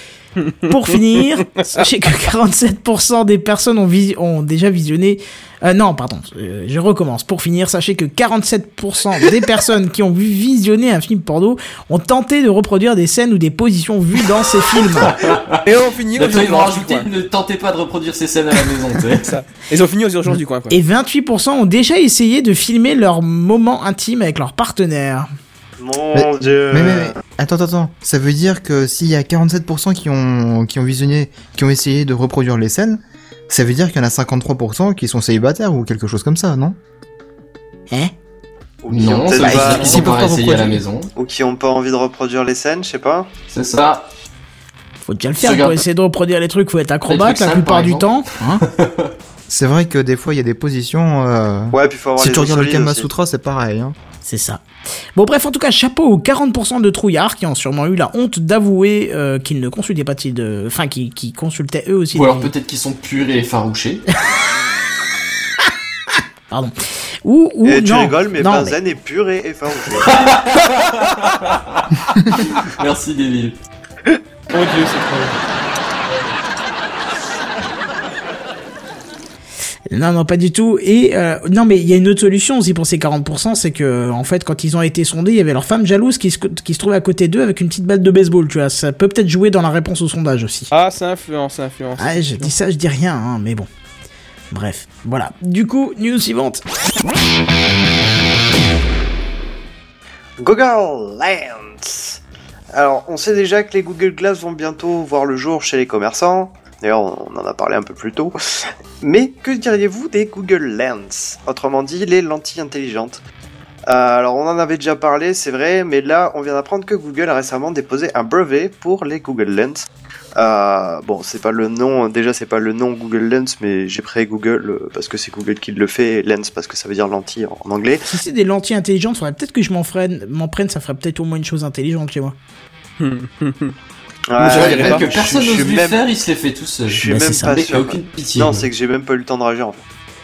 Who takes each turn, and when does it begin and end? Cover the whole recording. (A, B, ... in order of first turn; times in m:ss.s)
0:00.4-0:00.8 A
0:00.7-0:15.1 B
0:01.4-0:01.8 A
0:15.0-0:15.6 C
0:15.6-0:17.1 A
0:16.1-0:19.3 C
0:19.2-0:20.8 A
0:20.7-0:25.3 B
0:25.8-0:27.2 D
0:26.1-0:36.8 E
0:38.8-0:40.1 D
0:38.9-0:41.1 C
0:39.4-0:40.8 E
0:41.2-0:43.3 D
0:43.5-0:44.1 C
0:45.0-0:48.6 B
0:45.4-0:45.8 C
0:47.1-0:49.1 C
0:49.5-0:53.9 E
0:51.7-0:53.1 D
0:54.2-0:54.6 B
0:55.2-1:02.5 B
1:02.1-1:04.0 C
1:06.5-1:08.8 B
1:07.6-1:10.2 D
1:10.0-1:13.6 C
1:14.5-1:15.4 A
1:19.9-1:30.7 B
1:30.7-1:32.5 A
1:32.0-1:33.7 B
1:34.5-1:36.6 B
1:40.4-1:42.2 D
1:42.7-1:48.4 D
1:49.0-1:53.2 D
1:53.9-2:08.0 D
2:08.1-2:12.3 B
2:13.0-2:13.7 A
2:14.3-2:16.0 D
2:14.4-2:18.7 C
2:14.4-2:15.1 A
2:16.9-2:19.8 D
2:17.1-2:17.5 B